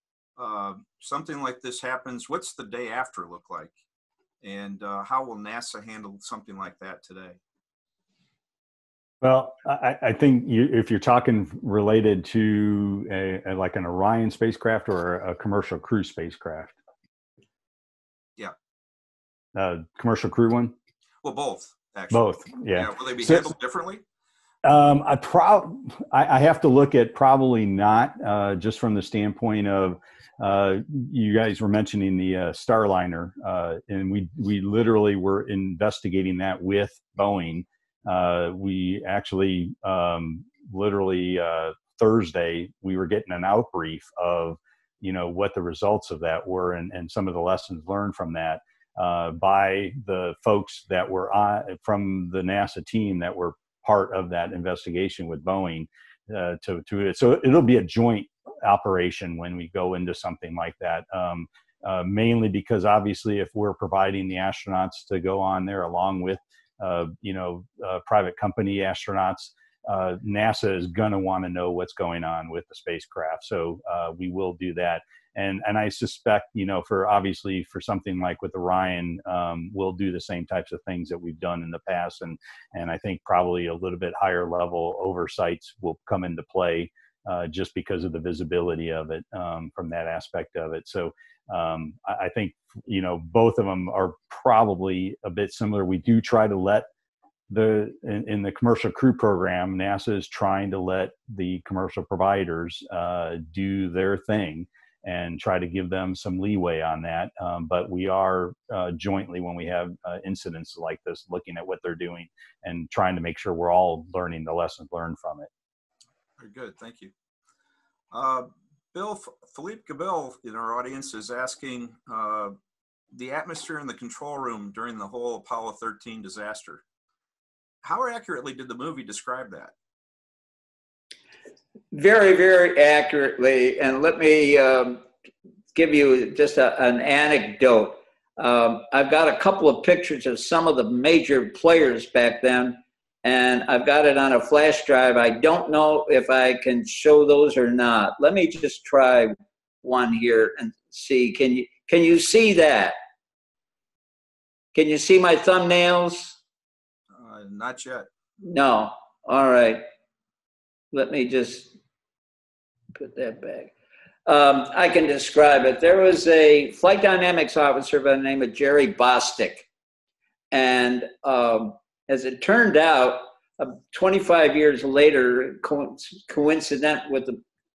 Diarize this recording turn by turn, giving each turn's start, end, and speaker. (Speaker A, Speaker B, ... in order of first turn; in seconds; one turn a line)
Speaker A: 0.4-3.7
Speaker A: 4.4-7.4
Speaker B: 9.2-16.8
Speaker B: 19.6-20.8
Speaker A: 21.2-24.0
Speaker B: 22.1-23.6
Speaker B: 24.6-96.9
Speaker B: 97.5-115.5
Speaker A: 116.4-117.1
Speaker A: 118.1-122.5
Speaker A: 123.1-126.8
Speaker A: 127.8-129.7
Speaker C: 131.9-135.1
Speaker C: 135.7-153.0
Speaker C: 154.7-156.4
Speaker A: 157.1-158.1
Speaker C: 158.4-159.8
Speaker C: 160.9-161.8
Speaker C: 163.0-163.7
Speaker C: 164.3-169.7
Speaker C: 170.5-177.4